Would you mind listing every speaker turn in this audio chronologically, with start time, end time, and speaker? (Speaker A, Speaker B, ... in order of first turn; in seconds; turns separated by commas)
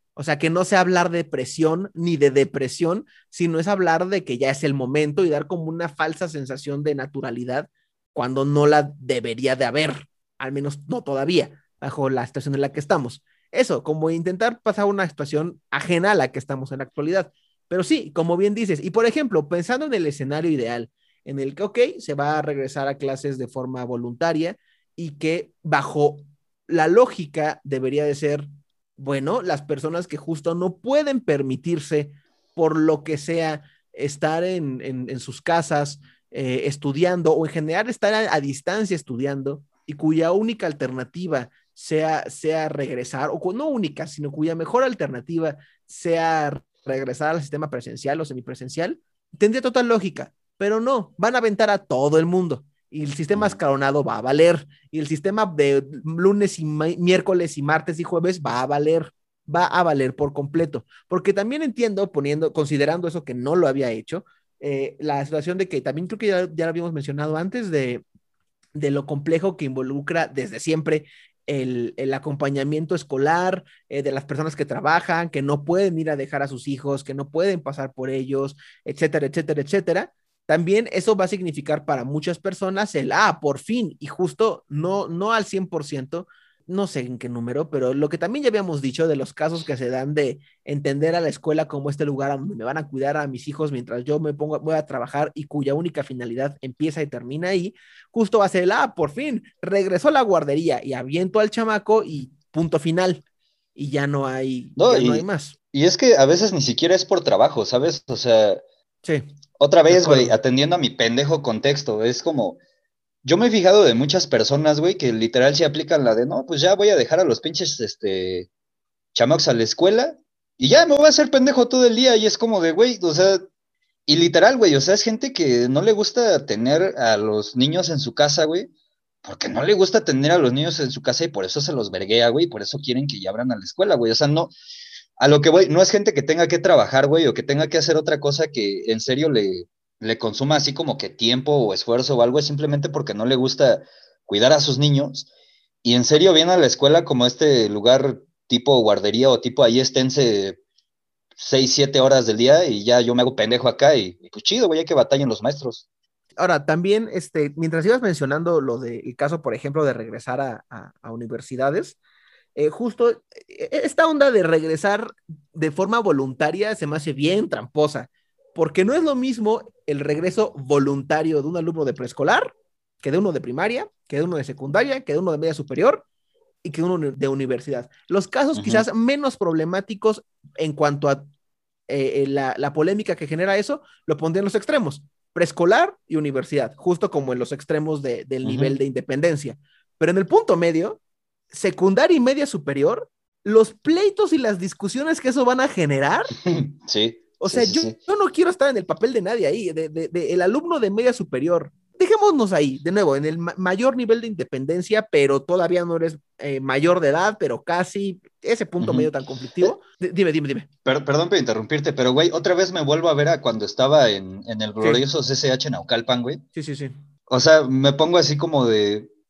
Speaker A: 0.2-68.0, Speaker A: 68.8-103.2, Speaker A: 103.8-105.5, Speaker B: 104.8-108.6, Speaker B: 109.6-112.6, Speaker A: 109.9-110.3, Speaker B: 113.2-118.5, Speaker B: 119.1-123.4, Speaker B: 124.1-128.7, Speaker B: 129.2-134.5, Speaker B: 135.2-145.3, Speaker B: 145.8-150.6, Speaker B: 151.4-155.8, Speaker A: 156.4-162.0, Speaker A: 162.6-176.1, Speaker A: 176.6-181.2, Speaker B: 178.6-178.9, Speaker A: 181.9-191.0, Speaker B: 188.4-188.8, Speaker A: 191.5-196.3, Speaker B: 196.4-197.9, Speaker A: 197.4-210.7, Speaker B: 208.8-209.1, Speaker B: 210.9-216.4, Speaker A: 216.6-216.9, Speaker B: 217.3-219.1